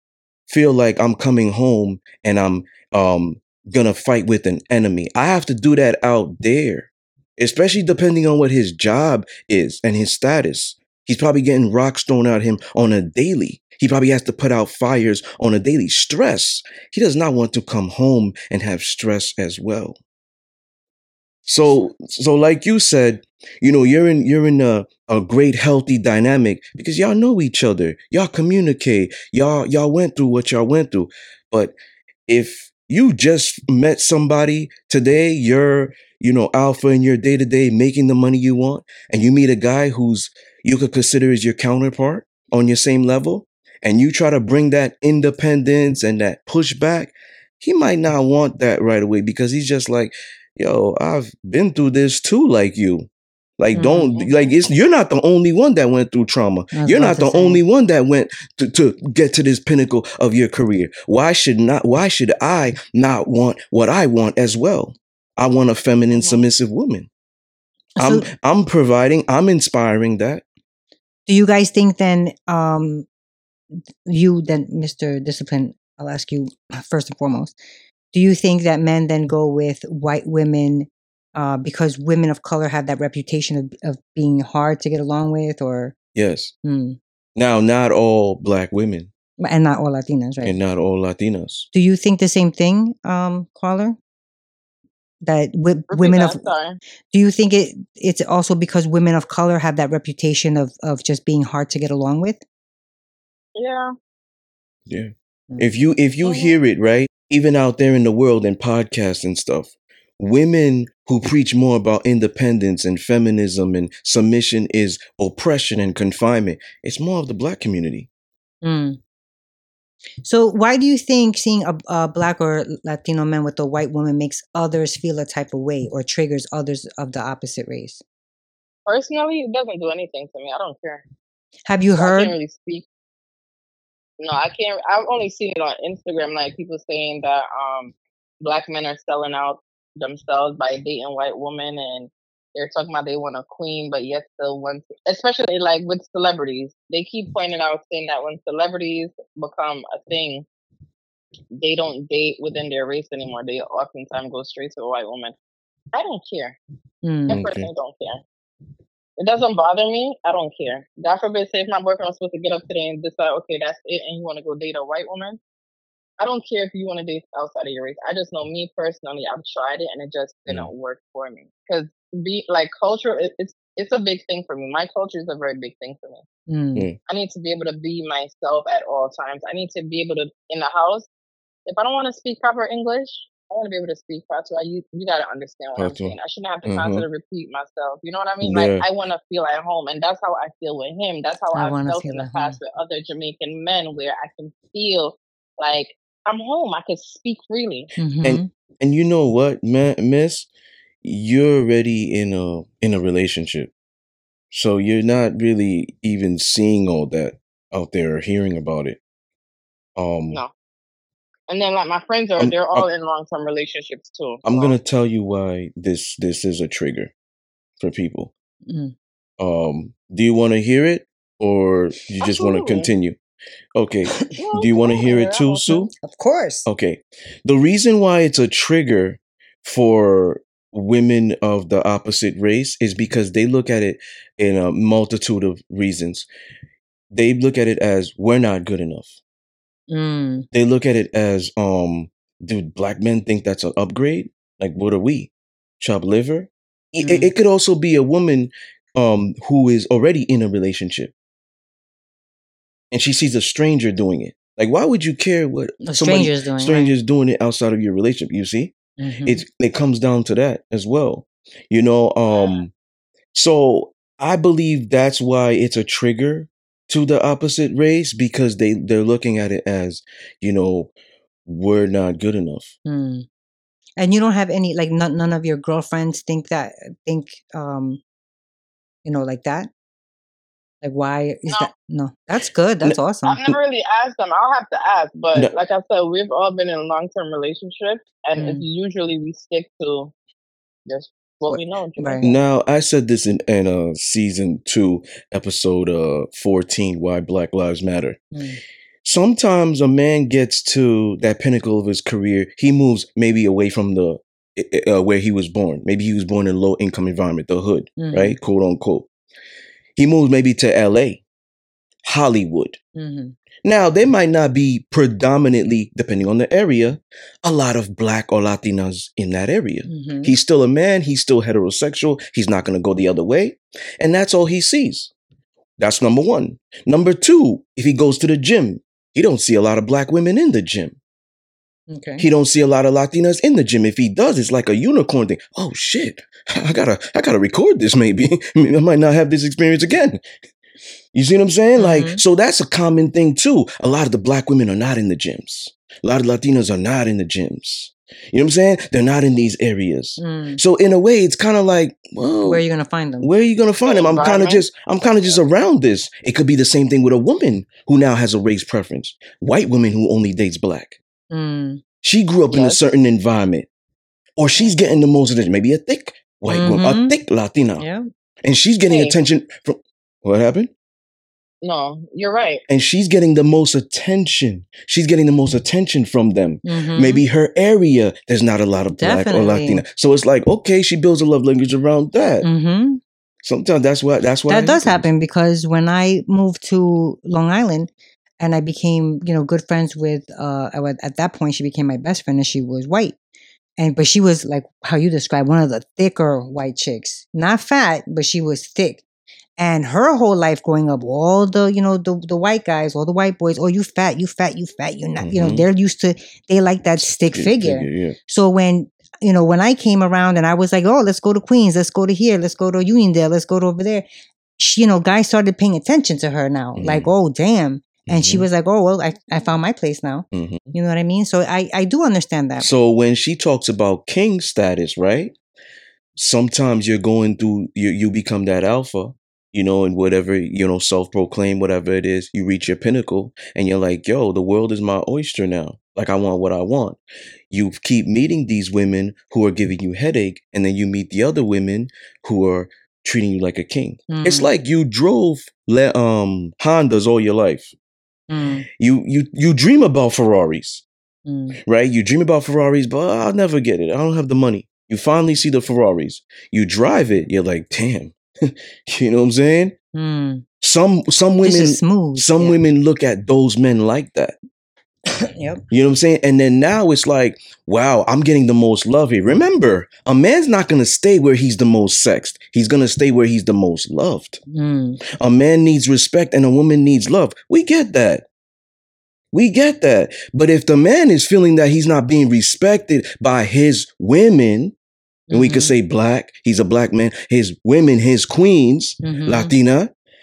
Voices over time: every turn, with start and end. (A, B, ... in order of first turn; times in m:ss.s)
0:00.5-0:20.0 A
0:21.4-0:31.7 A
0:32.3-0:53.1 A
0:53.6-1:07.1 A
0:53.7-0:54.1 B
0:53.8-0:54.5 C
0:56.7-0:57.6 B
1:06.1-1:06.4 C
1:08.0-1:08.3 B
1:08.0-1:10.4 A
1:11.3-1:13.0 B
1:13.7-1:17.5 B
1:18.1-1:25.9 B
1:26.1-1:26.5 A
1:26.6-1:27.0 B
1:27.4-1:29.1 A
1:29.4-1:30.6 B
1:30.4-1:31.7 A
1:31.7-1:34.0 B
1:35.2-1:36.4 B
1:35.9-1:36.8 C
1:37.1-1:42.4 B
1:43.6-1:43.9 C
1:44.9-1:58.1 A
1:46.2-1:46.5 C
1:58.6-1:59.0 B
2:00.2-2:08.0 B
2:08.9-2:11.0 C
2:11.6-2:12.4 B
2:11.9-2:12.9 C
2:14.2-2:30.4 C
2:31.6-2:35.4 C
2:35.9-2:36.6 C
2:37.0-2:37.4 B
2:37.3-2:38.2 C
2:37.3-2:37.7 A
2:39.2-2:45.4 C
2:46.2-2:56.2 C
2:56.5-2:56.9 B
2:57.1-3:01.1 C
3:01.6-3:17.9 C
3:05.8-3:07.0 A
3:08.4-3:08.8 A
3:11.5-3:12.6 B
3:18.0-3:18.5 B
3:18.2-3:20.5 A
3:21.0-3:23.7 A
3:24.5-3:29.0 A
3:30.0-3:30.4 A
3:31.5-3:34.8 C
3:32.4-3:32.9 A
3:34.4-3:37.1 A
3:37.8-3:38.3 A
3:38.6-3:38.9 B
3:39.4-3:43.2 A
3:42.2-3:42.9 C
3:43.7-3:45.9 A
3:44.3-3:45.7 C
3:45.7-3:46.7 B
3:46.6-3:56.3 A
3:57.1-3:59.2 A
3:59.9-4:00.5 B
4:00.5-4:11.1 A
4:07.0-4:07.3 B
4:12.9-4:18.7 A
4:15.8-4:16.9 B
4:19.0-4:19.4 B
4:19.2-4:22.7 A
4:22.3-4:22.6 C
4:23.3-4:30.9 A
4:31.4-4:32.7 A
4:32.9-4:33.3 B
4:34.0-4:38.0 B
4:39.0-4:39.7 B
4:40.8-4:43.4 B
4:42.8-4:43.6 A
4:43.2-4:50.1 C
4:48.4-4:48.6 B
4:50.9-4:52.2 C
4:51.5-4:52.4 B
4:52.2-4:58.2 A
4:58.3-4:58.6 B
4:59.0-5:09.1 A
5:08.0-5:08.4 B
5:10.0-5:11.2 A
5:12.0-5:12.8 A
5:12.9-5:13.4 B
5:13.6-5:25.1 A
5:19.9-5:20.4 B
5:25.8-5:31.0 A
5:31.9-5:32.3 B
5:32.2-5:40.2 A
5:41.1-5:52.6 A
5:41.8-5:42.2 B
5:50.2-5:50.6 B
5:52.4-5:53.3 B
5:53.2-6:01.0 A
5:53.8-5:54.6 C
6:01.3-6:01.8 B
6:02.0-6:03.7 A
6:02.5-6:02.9 C
6:04.4-6:07.9 A
6:06.5-6:07.2 B
6:07.8-6:08.0 B
6:08.4-6:10.7 A
6:08.9-6:09.2 C
6:11.6-6:12.6 C
6:12.7-6:22.5 A
6:16.6-6:17.2 B
6:19.0-6:19.8 B
6:22.4-6:23.0 B
6:23.4-6:25.1 A
6:24.5-6:33.2 B
6:33.8-6:39.0 B
6:39.6-6:54.0 B
6:45.2-6:45.7 A
6:47.0-6:48.2 A
6:54.6-7:02.7 B
6:56.8-6:57.1 A
6:58.1-6:58.5 A
7:00.3-7:00.7 A
7:02.6-7:05.3 A
7:06.2-7:17.0 A
7:17.5-7:27.7 A
7:24.1-7:24.5 B
7:28.3-7:28.6 B
7:28.8-7:30.8 A
7:31.2-7:31.6 B
7:31.6-7:39.7 A
7:39.9-7:40.4 B
7:40.6-7:44.4 A
7:41.4-7:42.6 B
7:45.1-7:45.6 B
7:45.7-7:54.4 A
7:54.5-7:55.0 B
7:55.2-7:58.2 A
7:59.3-8:04.7 A
8:05.3-8:05.7 B
8:05.3-8:09.9 A
8:09.0-8:09.5 B